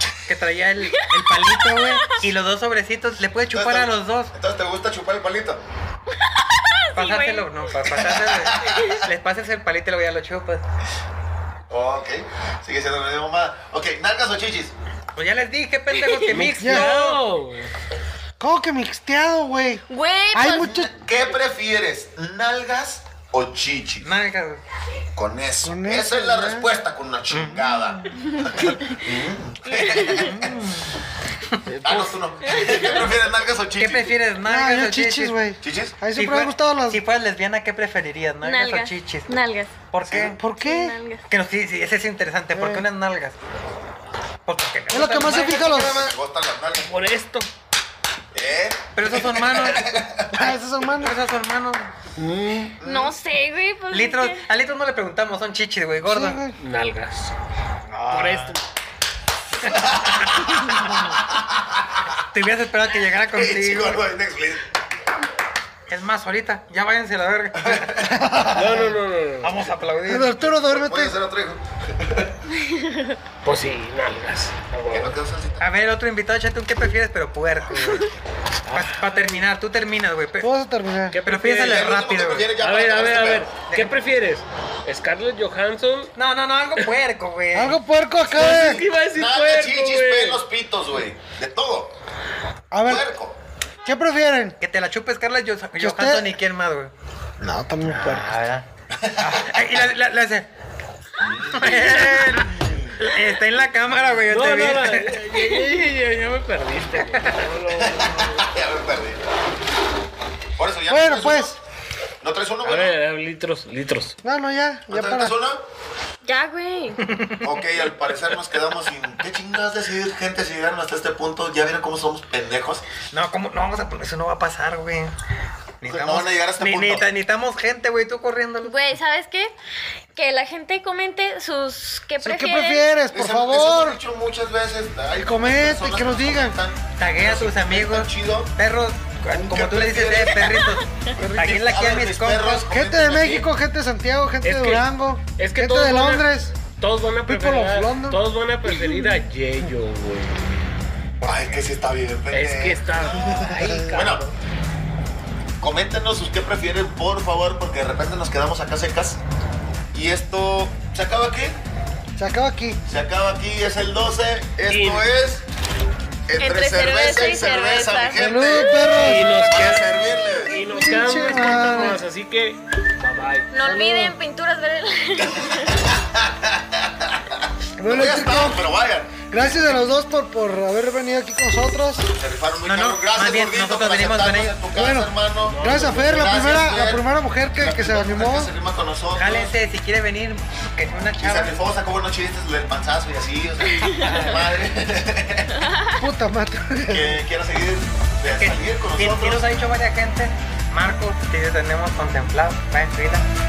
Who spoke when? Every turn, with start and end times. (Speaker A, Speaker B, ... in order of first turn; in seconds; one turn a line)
Speaker A: 0.2-4.3
Speaker B: 0.9-2.2
Speaker C: 3.5-5.6
Speaker B: 6.3-7.5
Speaker A: 6.9-10.6
Speaker C: 7.8-9.1
Speaker C: 11.7-14.7
Speaker A: 15.1-17.2
Speaker B: 15.9-16.4
Speaker D: 16.3-17.7
Speaker E: 16.6-16.9
Speaker E: 18.4-19.8
Speaker B: 19.9-20.9
Speaker E: 20.3-20.9
Speaker C: 20.5-24.1
Speaker A: 24.0-24.6
Speaker C: 25.1-30.5
Speaker E: 25.6-26.7
Speaker A: 27.3-28.1
Speaker B: 29.7-30.1
Speaker A: 29.9-30.9
Speaker D: 31.6-33.0
Speaker C: 31.8-34.1
Speaker B: 32.5-32.9
Speaker A: 33.8-35.4
Speaker E: 34.4-37.0
Speaker C: 35.6-36.0
Speaker A: 36.1-39.3
Speaker B: 38.4-39.7
Speaker A: 39.9-40.4
Speaker C: 40.1-40.4
Speaker E: 40.3-41.0
Speaker B: 40.6-41.2
Speaker A: 41.3-43.4
Speaker E: 42.5-42.8
Speaker A: 44.5-46.1
Speaker E: 44.9-46.1
Speaker C: 45.3-46.9
Speaker D: 46.7-47.5
Speaker C: 48.3-50.5
Speaker A: 48.9-51.9
Speaker E: 50.3-51.1
Speaker D: 52.2-52.8
Speaker C: 52.8-53.1
Speaker B: 52.8-54.4
Speaker A: 53.9-56.4
Speaker E: 56.1-56.5
Speaker D: 56.6-57.3
Speaker A: 57.9-58.5
Speaker D: 58.1-58.6
Speaker C: 59.6-62.0
Speaker A: 60.7-61.0
Speaker A: 62.3-64.0
Speaker C: 63.3-64.7
Speaker A: 65.9-68.1
Speaker C: 67.5-68.2
Speaker E: 68.1-68.8
Speaker D: 68.5-69.7
Speaker A: 69.4-70.6
Speaker E: 70.0-71.1
Speaker C: 70.7-72.3
Speaker B: 72.6-73.1
Speaker D: 73.4-75.1
Speaker C: 74.9-75.7
Speaker A: 75.6-80.5
Speaker D: 78.7-79.0
Speaker E: 80.4-81.2
Speaker D: 81.1-81.9
Speaker A: 81.2-82.5
Speaker C: 81.6-83.5
Speaker D: 82.6-86.1
Speaker A: 83.7-83.9
Speaker A: 86.2-87.8
Speaker E: 87.5-88.8
Speaker D: 88.3-90.4
Speaker C: 88.4-91.9
Speaker E: 92.7-93.1
Speaker C: 92.8-93.4
Speaker E: 93.8-94.6
Speaker A: 94.6-96.9
Speaker E: 95.8-96.2
Speaker E: 97.4-98.3
Speaker A: 97.8-98.7
Speaker C: 98.9-99.4
Speaker A: 99.2-100.5
Speaker C: 101.2-103.0
Speaker A: 101.4-105.2
Speaker D: 104.3-108.5
Speaker C: 107.8-109.2
Speaker C: 110.6-111.5
Speaker E: 110.9-111.6
Speaker C: 112.2-113.0
Speaker D: 112.6-114.2
Speaker E: 114.2-115.3
Speaker C: 114.9-115.6
Speaker B: 116.2-117.1
Speaker A: 117.0-117.5
Speaker C: 117.4-122.8
Speaker A: 123.1-125.1
Speaker A: 125.8-128.7
Speaker C: 125.9-127.0
Speaker B: 128.6-129.5
Speaker B: 130.1-132.9
Speaker E: 132.2-134.0
Speaker C: 133.1-138.5
Speaker E: 135.2-136.6
Speaker A: 137.0-142.7
Speaker C: 139.3-140.6
Speaker B: 140.6-140.8
Speaker C: 141.2-143.5
Speaker E: 142.7-146.5
Speaker D: 144.4-150.4
Speaker E: 147.3-148.2
Speaker A: 151.2-151.6
Speaker C: 151.2-154.2
Speaker D: 152.3-154.3
Speaker E: 153.2-153.9
Speaker C: 155.6-159.2
Speaker C: 159.9-161.6
Speaker E: 162.2-162.8
Speaker C: 162.8-165.4
Speaker D: 164.7-165.1
Speaker C: 166.3-168.8
Speaker B: 166.4-168.8
Speaker E: 168.2-169.6
Speaker D: 168.9-173.5
Speaker C: 169.4-170.6
Speaker E: 170.5-172.0
Speaker B: 173.5-175.8
Speaker E: 173.6-174.2
Speaker C: 175.4-179.3
Speaker E: 177.8-178.7
Speaker E: 179.3-182.1
Speaker C: 182.0-189.5
Speaker A: 182.6-184.6
Speaker E: 184.7-188.5
Speaker D: 185.4-186.6
Speaker A: 189.1-191.6
Speaker C: 191.2-195.7
Speaker A: 193.9-194.5
Speaker B: 195.6-196.0
Speaker E: 196.0-197.2
Speaker C: 196.9-199.4
Speaker A: 198.3-203.2